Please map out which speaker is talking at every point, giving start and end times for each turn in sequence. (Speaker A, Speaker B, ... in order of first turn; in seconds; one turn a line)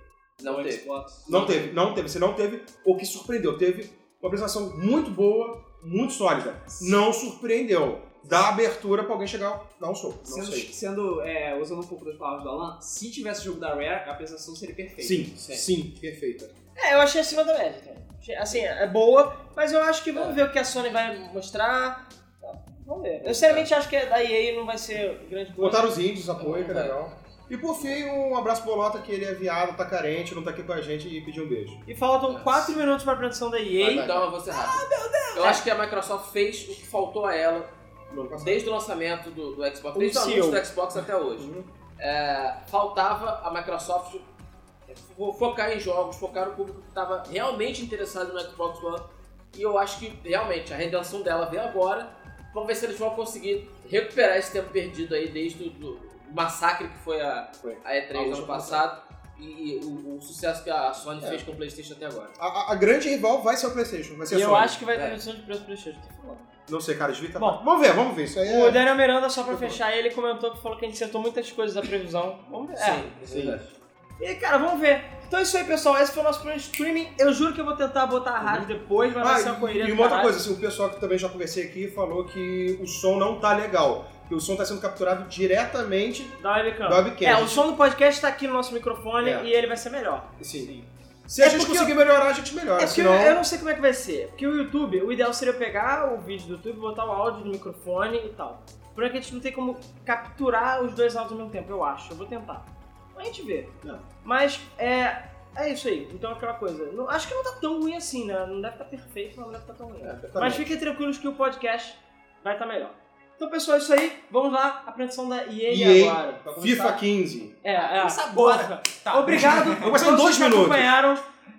Speaker A: 0.4-1.7
Speaker B: 0.4-1.7
Speaker C: 1.3-10.7
Speaker B: 6.7-7.0
Speaker B: 10.3-15.3
Speaker C: 15.0-16.5
Speaker A: 15.4-15.7
Speaker D: 16.8-25.9
Speaker A: 23.2-23.7
Speaker C: 25.6-31.8
Speaker A: 26.4-26.9
Speaker D: 31.9-35.6
Speaker A: 32.3-32.7
Speaker A: 33.8-37.7
Speaker C: 33.8-34.3
Speaker C: 38.1-38.6
Speaker A: 38.4-44.3
Speaker D: 39.9-40.6
Speaker C: 41.4-41.7
Speaker A: 44.9-62.4
Speaker C: 57.6-58.8
Speaker C: 61.2-61.5
Speaker C: 62.4-64.8
Speaker D: 64.3-66.5
Speaker A: 64.9-65.2
Speaker C: 66.7-68.8
Speaker D: 68.5-73.0
Speaker C: 69.5-69.8
Speaker A: 72.8-73.7
Speaker C: 73.3-73.6
Speaker D: 74.2-80.4
Speaker C: 78.4-78.7
Speaker C: 79.2-87.7
Speaker D: 86.4-90.3
Speaker C: 89.2-89.5
Speaker C: 90.4-90.7
Speaker B: 90.5-90.9
Speaker C: 91.3-93.4
Speaker D: 91.4-92.0
Speaker D: 92.8-116.4
Speaker A: 110.0-110.5
Speaker C: 110.2-110.7
Speaker C: 115.7-117.5
Speaker B: 116.5-117.0
Speaker D: 117.6-121.2
Speaker B: 117.7-119.9
Speaker C: 119.7-120.9